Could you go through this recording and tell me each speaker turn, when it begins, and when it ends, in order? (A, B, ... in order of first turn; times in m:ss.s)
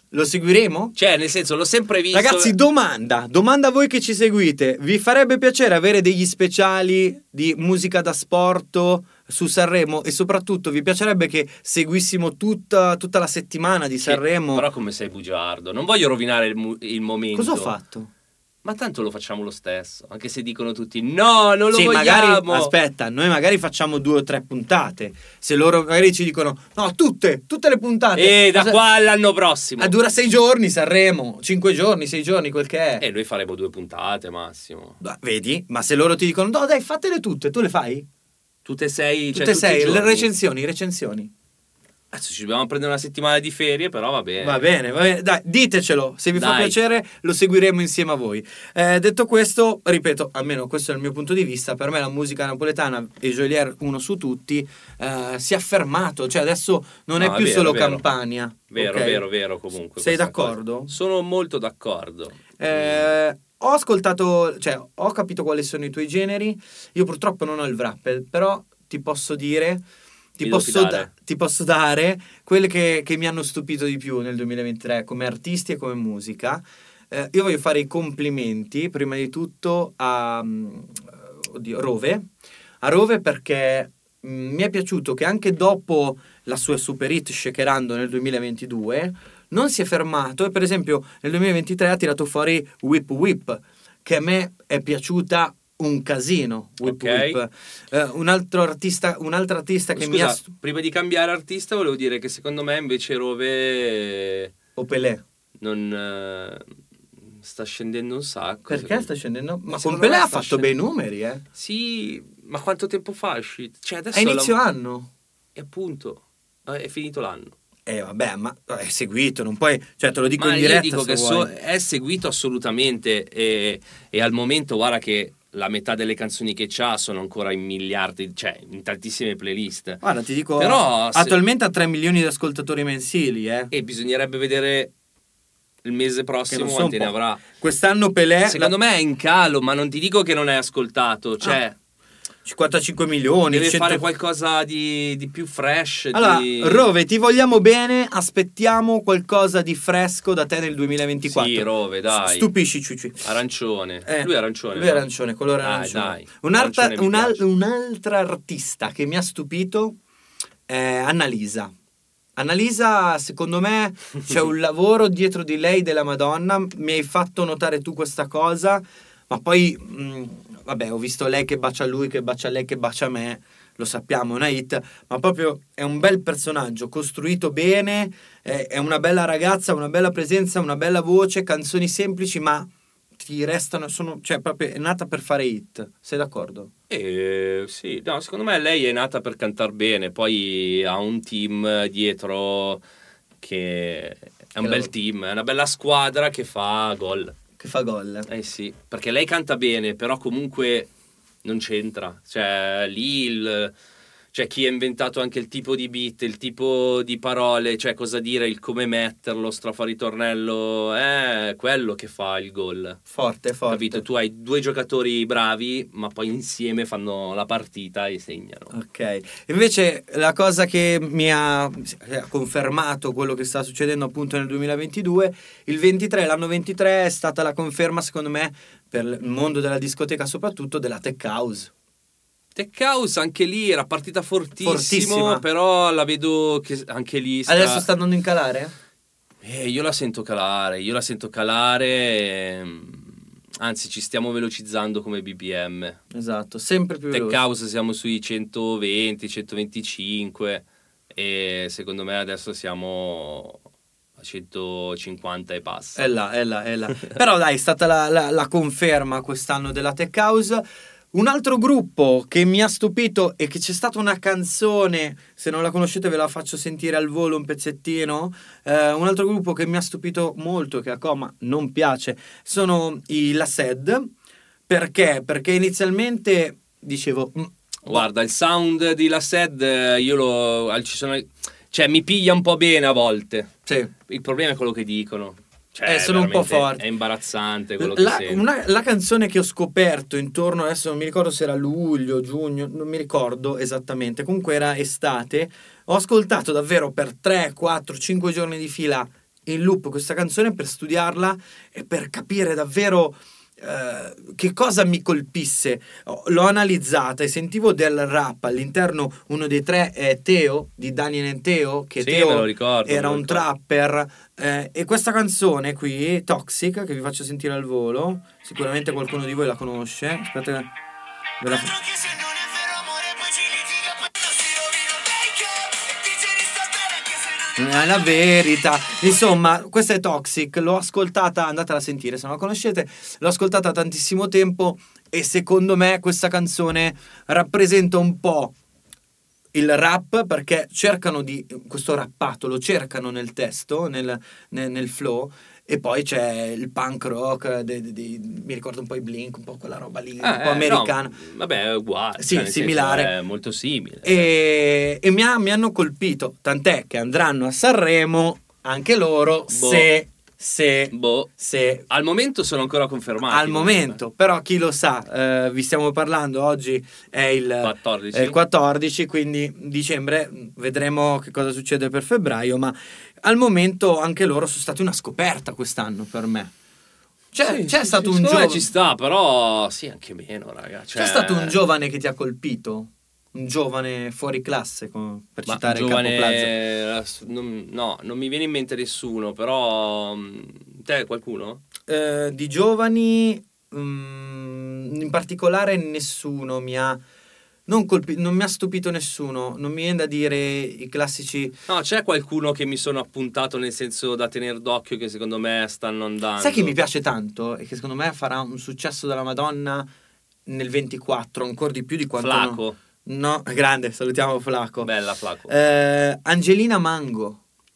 0:00.1-0:01.0 A
0:01.0-0:02.6 B
0:02.1-0:14.7 A
0:14.0-0:17.7 B
0:17.3-0:18.1 A
0:18.6-0:22.7 B
0:21.7-0:28.8 A
0:28.1-0:29.9 B
0:29.8-0:33.0 A
0:33.0-0:35.0 B
0:35.0-0:38.1 A
0:38.6-0:40.3 B
0:39.3-0:41.3 A
0:42.1-0:44.6 B
0:44.4-0:59.2 A
0:46.4-0:46.8 B
0:57.2-0:58.0 B
0:58.7-1:03.1 B
1:00.0-1:00.9 A
1:02.6-1:09.8 A
1:10.4-1:22.3 A
1:10.4-1:11.1 B
1:22.8-1:40.4 A
1:36.8-1:37.4 B
1:40.0-1:44.5 B
1:44.8-1:45.2 A
1:45.6-1:46.6 B
1:47.2-1:49.1 B
1:48.7-1:51.4 A
1:49.7-1:50.7 B
1:51.6-1:54.6 B
1:54.1-1:55.1 A
1:55.6-1:57.5 B
1:57.9-2:01.5 A
2:00.4-2:10.0 B
2:10.0-2:13.7 A
2:10.6-2:11.4 B
2:13.7-2:14.9 B
2:15.8-2:17.4 B
2:16.5-2:18.7 A
2:18.5-2:21.8 B
2:22.4-2:24.0 A
2:23.5-2:26.9 B
2:26.1-2:33.2 A
2:31.2-2:32.5 B
2:33.2-2:35.1 B
2:34.0-2:40.0 A
2:35.6-2:37.4 B
2:40.7-2:41.7 A
2:42.4-3:06.7 A
3:06.9-3:12.8 B
3:13.4-3:17.4 B
3:14.6-3:14.9 A
3:17.6-3:18.3 A
3:18.3-3:20.9 B
3:21.4-3:23.7 B
3:24.3-3:33.0 B
3:33.1-3:34.0 A
3:33.7-3:38.7 B
3:38.7-3:51.7 A
3:52.6-3:57.9 B
3:54.6-3:55.4 A
3:57.5-3:58.7 A
3:59.4-4:06.0 B
4:06.1-4:07.4 A
4:07.1-4:13.6 B
4:14.2-4:16.0 B
4:16.0-4:34.1 A
4:34.7-4:38.0 A
4:37.8-4:43.5 B
4:43.7-4:43.9 A
4:44.1-4:48.4 B
4:45.8-4:46.8 A
4:47.8-5:20.7 A
5:12.0-5:13.5 B
5:21.4-5:21.9 A
5:22.2-5:27.5 C
5:27.6-5:38.5 A
5:39.5-5:51.2 A
5:50.2-5:54.3 B
5:52.2-5:53.1 A
5:54.0-6:01.9 A
5:59.5-5:59.9 B
6:00.9-6:01.3 B
6:01.9-6:04.0 B
6:03.3-6:16.5 A
6:07.6-6:08.4 B
6:17.3-6:18.7 A
6:17.4-6:21.6 B
6:21.0-6:26.5 A
6:25.5-6:31.6 B
6:31.9-6:37.0 A
6:37.7-6:41.5 A
6:41.7-6:46.8 B
6:46.4-6:49.9 A
6:50.5-6:54.9 A
6:52.2-6:52.8 B
6:54.8-6:55.5 B
6:55.5-6:57.4 A